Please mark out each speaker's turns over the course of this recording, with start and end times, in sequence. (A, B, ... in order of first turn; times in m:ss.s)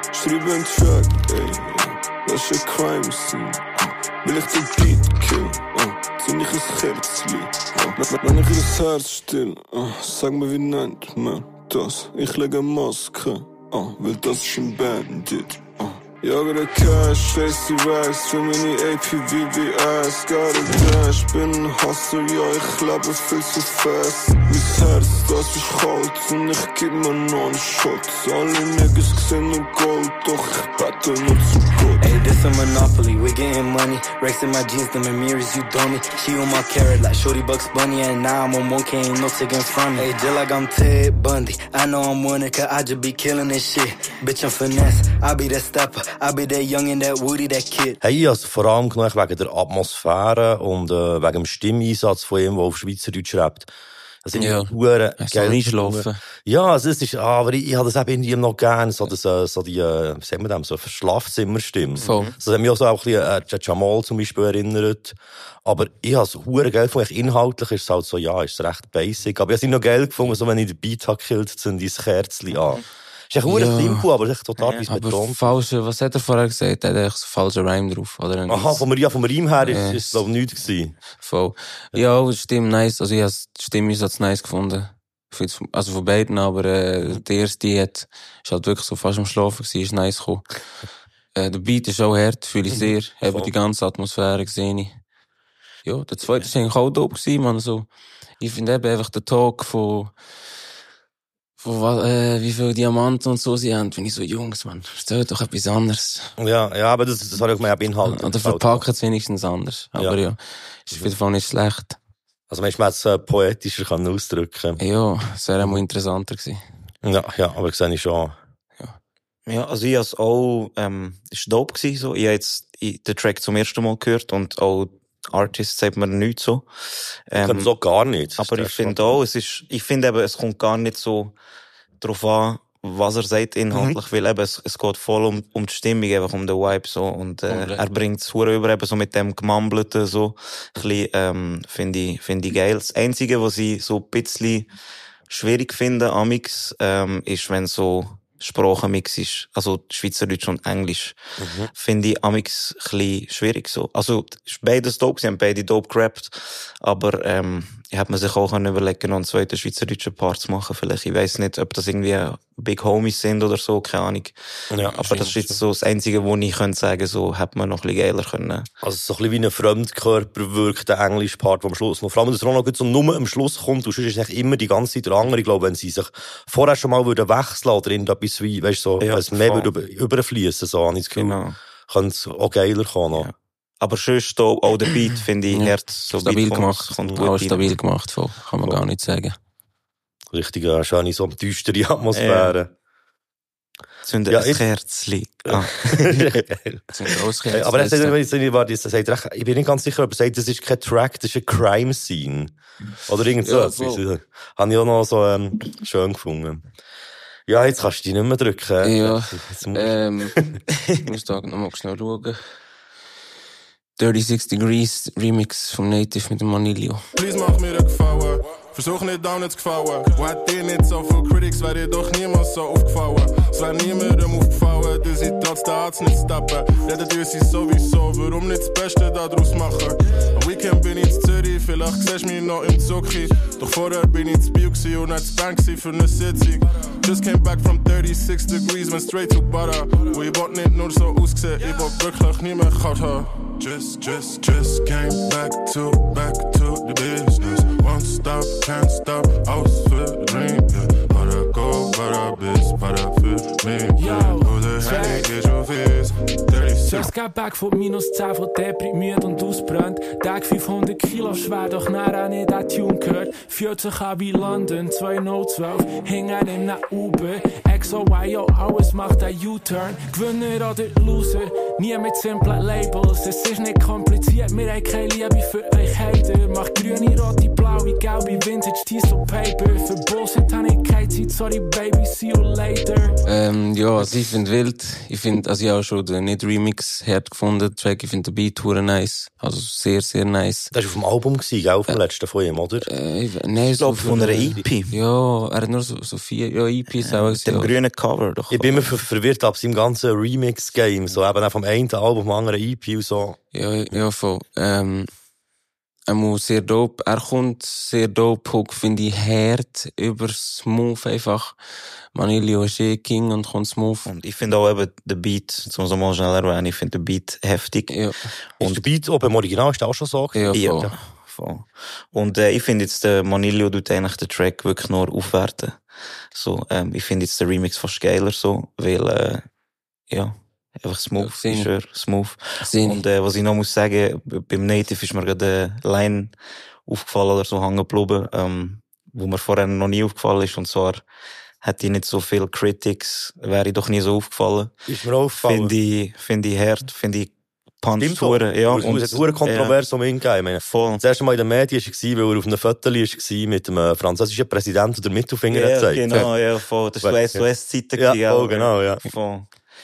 0:00.1-0:32.2 A
0:32.0-0:48.0 B
0:48.0-0:53.7 C
0:54.2-1:15.4 C
0:54.4-0:56.2 D
1:02.0-1:02.4 E
1:02.0-1:02.3 D
1:13.5-1:14.1 D
1:14.6-1:14.8 E
1:14.9-1:18.8 D
1:18.5-1:21.0 C
1:19.6-1:20.2 D
1:21.2-1:30.4 D
1:31.4-1:35.0 D
1:35.8-1:37.9 D
1:38.4-1:40.1 D
1:41.6-1:46.3 D
1:46.4-1:48.8 C
1:48.1-1:52.0 D
1:52.5-1:54.8 C
1:54.8-1:56.6 D
1:57.0-1:58.4 C
1:59.5-2:07.7 E
2:07.4-2:09.2 C
2:08.4-2:11.3 E
2:12.0-2:24.7 E
2:17.5-2:17.8 D
2:25.3-2:31.2 E
2:31.4-2:31.7 C
2:31.7-2:48.7 E
2:44.7-2:45.6 C
2:48.8-3:03.3 C
2:59.0-2:59.7 E
3:01.1-3:01.6 E
3:03.1-3:07.8 E
3:05.5-3:09.4 D
3:10.3-3:12.7 C
3:12.1-3:12.6 E
3:14.0-3:16.3 E
3:14.3-3:14.6 C
3:15.5-3:16.8 C
3:16.9-3:18.2 D
3:17.5-3:22.5 C
3:23.1-3:26.6 C
3:23.4-3:24.0 D
3:27.5-3:30.6 C
3:28.8-3:30.4 D
3:31.0-3:32.5 D
3:34.0-3:37.0 D
3:37.1-4:17.1 F
4:14.0-4:15.3 G
4:16.8-4:43.2 G
4:43.2-4:50.7 D
4:50.7-4:52.9 C
4:52.8-4:57.7 D
4:53.8-4:54.9 E
4:57.0-4:58.9 E
4:58.5-5:03.4 C
5:03.5-5:05.1 D
5:06.1-5:11.6 D
5:12.1-5:14.1 D
5:14.1-5:18.0 E
5:17.9-5:18.2 D
5:18.6-5:20.9 C
5:20.3-5:20.9 D
5:20.5-5:29.4 E
5:30.1-5:36.3 E
5:31.2-5:31.7 D
5:32.6-5:33.0 D
5:36.9-5:41.0 E
5:41.6-5:44.7 E
5:44.9-5:45.7 C
5:45.4-5:49.8 E
5:48.0-5:56.0 C
5:50.6-5:51.0 E
5:55.5-5:59.5 E
5:57.0-5:59.0 C